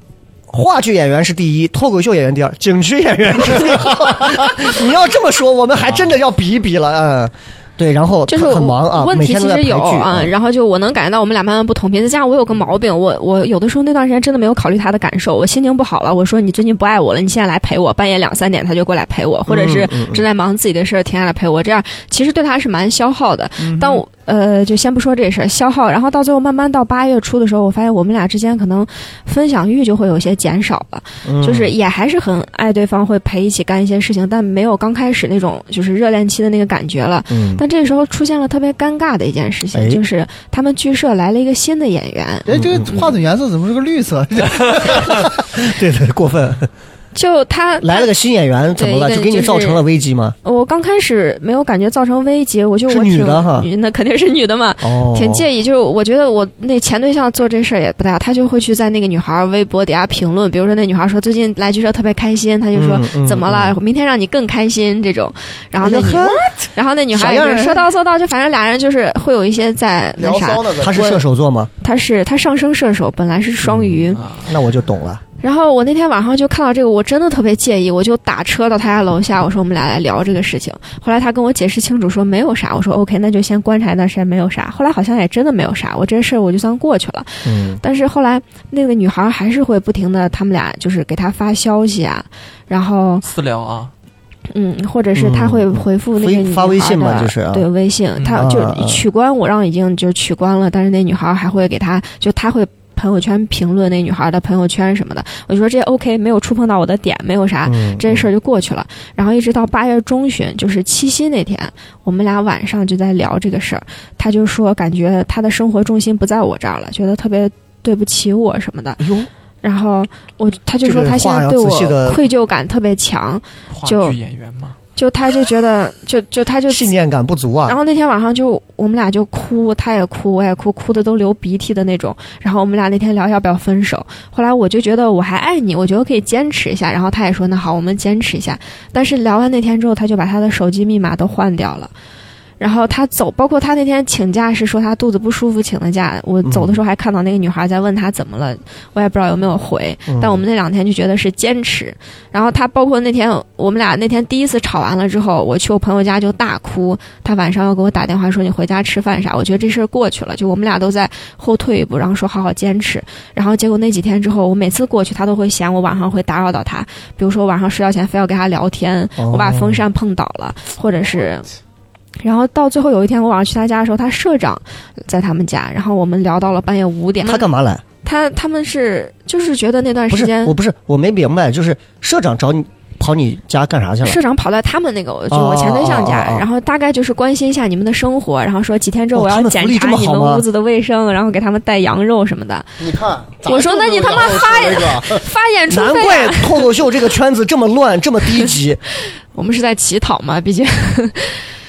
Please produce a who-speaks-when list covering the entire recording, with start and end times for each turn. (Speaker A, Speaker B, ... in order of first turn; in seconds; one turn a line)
Speaker A: 0.5-10.3
Speaker B: 8.3-42.5
Speaker A: 19.5-20.2
Speaker C: 23.6-24.0
Speaker A: 31.2-31.7
Speaker A: 37.3-37.6
Speaker A: 39.7-40.0
Speaker C: 42.5-45.2
Speaker A: 42.5-42.9
Speaker A: 45.0-46.7
Speaker B: 47.1-48.1
Speaker A: 47.8-50.4
Speaker B: 48.7-49.8
Speaker B: 50.4-71.2
Speaker A: 52.9-53.7
Speaker A: 54.8-55.5
Speaker A: 62.7-63.8
Speaker A: 65.8-66.5
Speaker A: 67.1-67.9
Speaker C: 70.2-71.2
Speaker A: 70.8-71.7
Speaker B: 71.8-74.2
Speaker A: 73.6-75.2
Speaker D: 74.2-74.5
Speaker B: 75.4-93.2
Speaker A: 87.4-87.8
Speaker D: 93.2-93.9
Speaker B: 94.5-119.0
Speaker A: 95.1-97.7
Speaker D: 98.2-98.5
Speaker A: 98.3-99.0
Speaker A: 107.6-108.3
Speaker A: 119.0-119.3
Speaker B: 119.6-124.2
Speaker A: 120.8-122.2
Speaker D: 123.7-124.8
Speaker B: 125.0-126.9
Speaker A: 126.7-127.8
Speaker B: 127.6-141.9
Speaker B: 142.6-171.5
Speaker A: 146.4-146.8
Speaker A: 150.1-150.4
Speaker A: 169.2-169.8
Speaker B: 172.2-177.5
Speaker A: 177.2-177.8
Speaker B: 178.0-180.5
Speaker A: 180.1-184.2
Speaker B: 184.0-192.7
Speaker A: 185.3-186.5
Speaker A: 189.1-190.4
Speaker C: 192.8-195.2
Speaker B: 193.4-196.7
Speaker A: 195.7-198.8
Speaker B: 199.3-201.5